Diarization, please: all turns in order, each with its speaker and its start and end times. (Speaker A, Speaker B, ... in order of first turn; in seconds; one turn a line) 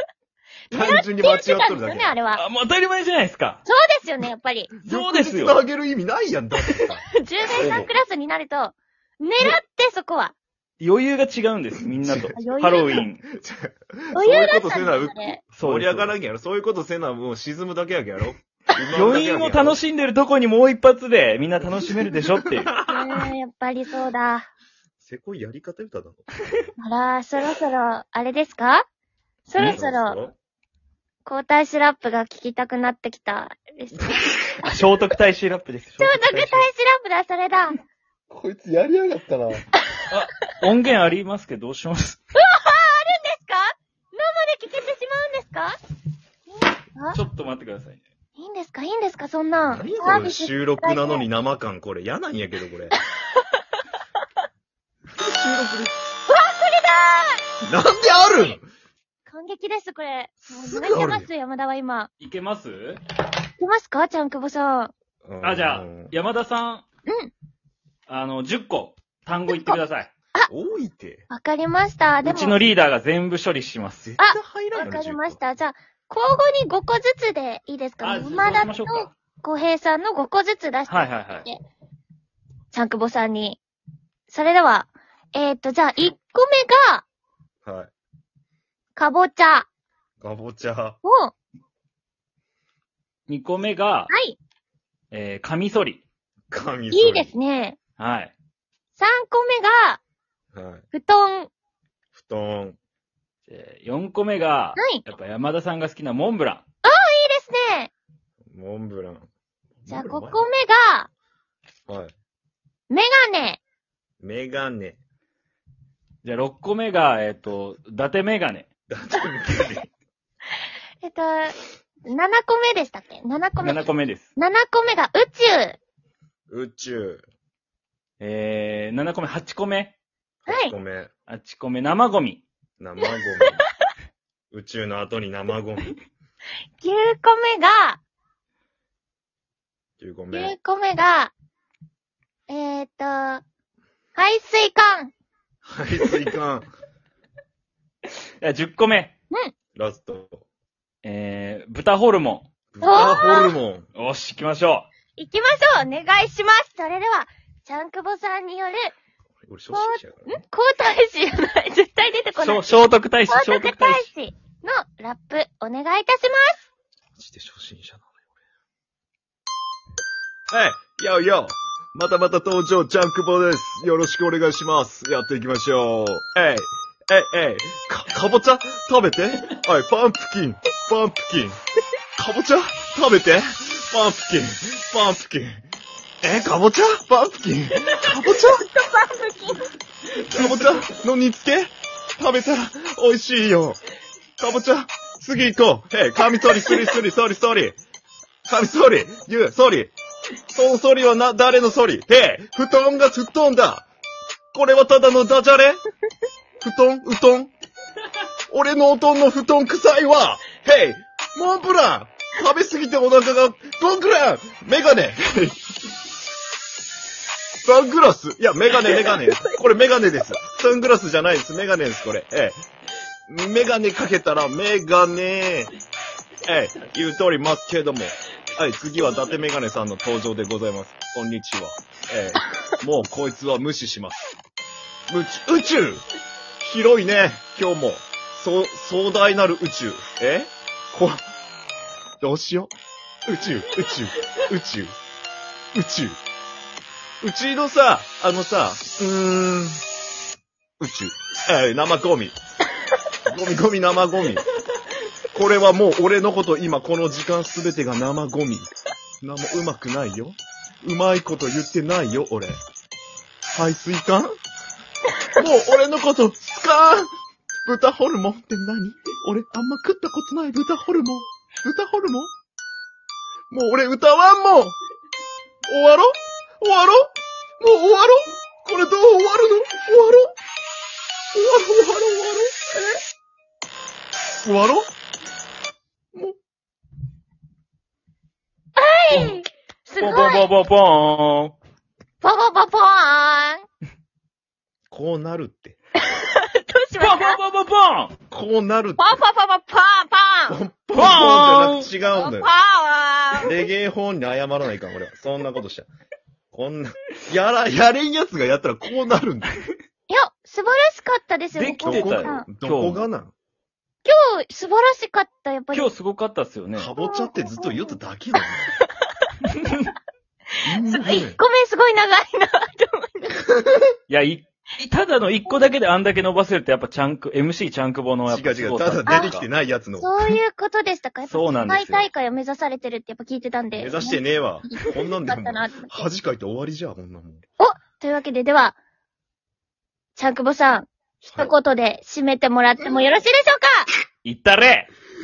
Speaker A: 0.7-2.4
Speaker B: 0.7-2.1
Speaker C: 2.3-3.6
Speaker A: 3.6-4.7
Speaker C: 4.8-5.6
Speaker B: 4.8-7.0
Speaker A: 7.2-10.3
Speaker B: 7.6-7.9
Speaker C: 7.6-7.9
Speaker C: 10.8-13.2
Speaker B: 12.0-12.3
Speaker A: 12.3-13.0
Speaker B: 13.3-19.8
Speaker A: 14.1-15.4
Speaker C: 15.5-16.1
Speaker C: 18.9-22.7
Speaker B: 21.7-23.0
Speaker A: 22.9-24.5
Speaker B: 25.0-26.7
Speaker A: 26.8-28.8
Speaker A: 29.4-30.2
Speaker C: 29.6-29.8
Speaker B: 29.6-30.3
Speaker A: 31.2-34.3
Speaker C: 34.6-36.7
Speaker A: 36.0-37.8
Speaker B: 38.3-39.6
Speaker C: 40.1-42.2
Speaker A: 42.4-45.8
Speaker A: 46.5-47.2
Speaker C: 47.1-48.0
Speaker A: 48.4-51.2
Speaker B: 49.6-52.9
Speaker B: 55.2-56.0
Speaker A: 56.3-57.4
Speaker B: 57.6-58.6
Speaker A: 58.0-58.5
Speaker A: 59.2-62.1
Speaker B: 60.4-61.3
Speaker C: 62.2-63.0
Speaker A: 63.6-64.9
Speaker B: 65.2-66.1
Speaker C: 65.4-66.8
Speaker C: 68.1-70.1
Speaker A: 69.5-69.8
Speaker B: 70.5-71.3
Speaker A: 71.3-72.6
Speaker C: 72.2-74.1
Speaker B: 74.0-75.4
Speaker A: 74.2-81.6
Speaker C: 78.0-79.1
Speaker C: 80.9-81.5
Speaker A: 82.7-83.6
Speaker A: 84.3-87.0
Speaker B: 87.6-87.9
Speaker A: 89.0-89.7
Speaker B: 90.2-91.0
Speaker A: 91.0-91.3
Speaker C: 93.3-94.1
Speaker A: 94.1-94.4
Speaker C: 95.1-96.0
Speaker B: 96.5-97.3
Speaker A: 96.9-97.8
Speaker C: 98.0-98.3
Speaker A: 99.0-100.0
Speaker B: 100.5-100.8
Speaker A: 100.9-101.5
Speaker B: 102.1-102.8
Speaker C: 103.5-106.6
Speaker A: 104.8-105.0
Speaker A: 106.8-107.9
Speaker B: 108.5-109.3
Speaker B: 109.8-110.5
Speaker A: 109.9-111.1
Speaker B: 111.9-112.1
Speaker A: 112.9-113.6
Speaker B: 114.2-115.0
Speaker C: 116.2-118.7
Speaker B: 118.9-119.9
Speaker A: 121.0-121.5
Speaker A: 122.1-125.8
Speaker C: 123.6-124.3
Speaker B: 126.5-127.2
Speaker C: 128.2-130.0
Speaker B: 130.4-131.1
Speaker A: 130.5-130.7
Speaker C: 131.3-132.4
Speaker B: 132.8-133.7
Speaker B: 134.5-136.0
Speaker A: 136.8-138.0
Speaker B: 140.0-140.5
Speaker A: 140.3-141.3
Speaker A: 142.5-143.4
Speaker A: 144.2-145.1
Speaker B: 145.6-146.7
Speaker C: 148.4-149.1
Speaker B: 149.8-150.4
Speaker C: 151.0-153.1
Speaker B: 152.7-153.8
Speaker A: 152.8-153.6
Speaker C: 153.9-154.9
Speaker A: 155.2-158.9
Speaker B: 159.4-160.4
Speaker A: 159.7-162.8
Speaker C: 162.4-164.1
Speaker A: 163.3-166.6
Speaker B: 167.2-168.1
Speaker B: 170.5-181.6
Speaker B: 182.2-185.6
Speaker B: 186.2-188.6
Speaker A: 188.4-189.7
Speaker B: 190.3-193.8
Speaker B: 194.4-197.8
Speaker B: 198.4-199.9
Speaker B: 200.5-203.9
Speaker B: 204.5-205.8
Speaker B: 206.6-207.5
Speaker B: 208.5-215.6
Speaker B: 217.6-222.6
Speaker A: 218.8-219.6
Speaker B: 223.3-225.7
Speaker B: 226.4-234.3
Speaker B: 235.1-236.0
Speaker B: 236.6-241.2
Speaker B: 242.2-242.7
Speaker B: 243.3-244.9
Speaker B: 245.7-246.2
Speaker B: 247.2-249.8
Speaker B: 250.8-252.4
Speaker B: 253.3-254.4
Speaker B: 255.3-258.7
Speaker B: 259.2-262.6
Speaker B: 263.5-264.3
Speaker B: 265.3-267.1
Speaker B: 267.6-272.3
Speaker B: 273.5-274.8
Speaker B: 275.7-280.3
Speaker B: 281.3-283.0
Speaker B: 284.4-284.9
Speaker A: 288.8-290.5
Speaker C: 289.1-289.4
Speaker C: 290.0-291.5
Speaker A: 292.2-293.6
Speaker B: 294.9-295.8
Speaker A: 296.0-297.4
Speaker C: 297.0-298.1
Speaker B: 298.3-299.2
Speaker A: 299.0-300.6
Speaker B: 300.5-302.5
Speaker C: 300.9-301.9
Speaker A: 302.1-303.5
Speaker B: 303.4-305.9
Speaker B: 306.5-309.5
Speaker A: 310.1-312.5
Speaker C: 311.5-313.0
Speaker B: 311.8-313.3
Speaker A: 314.0-315.9
Speaker C: 315.7-316.9
Speaker B: 316.7-318.7
Speaker A: 317.0-318.0
Speaker C: 319.6-319.9
Speaker B: 320.6-321.4
Speaker A: 320.8-323.4
Speaker C: 324.1-329.5
Speaker B: 328.3-330.4
Speaker A: 329.1-329.3
Speaker A: 330.0-336.1
Speaker C: 331.3-332.1
Speaker B: 333.7-337.4
Speaker A: 337.6-338.8
Speaker A: 340.1-343.9
Speaker B: 341.2-341.5
Speaker C: 344.2-344.9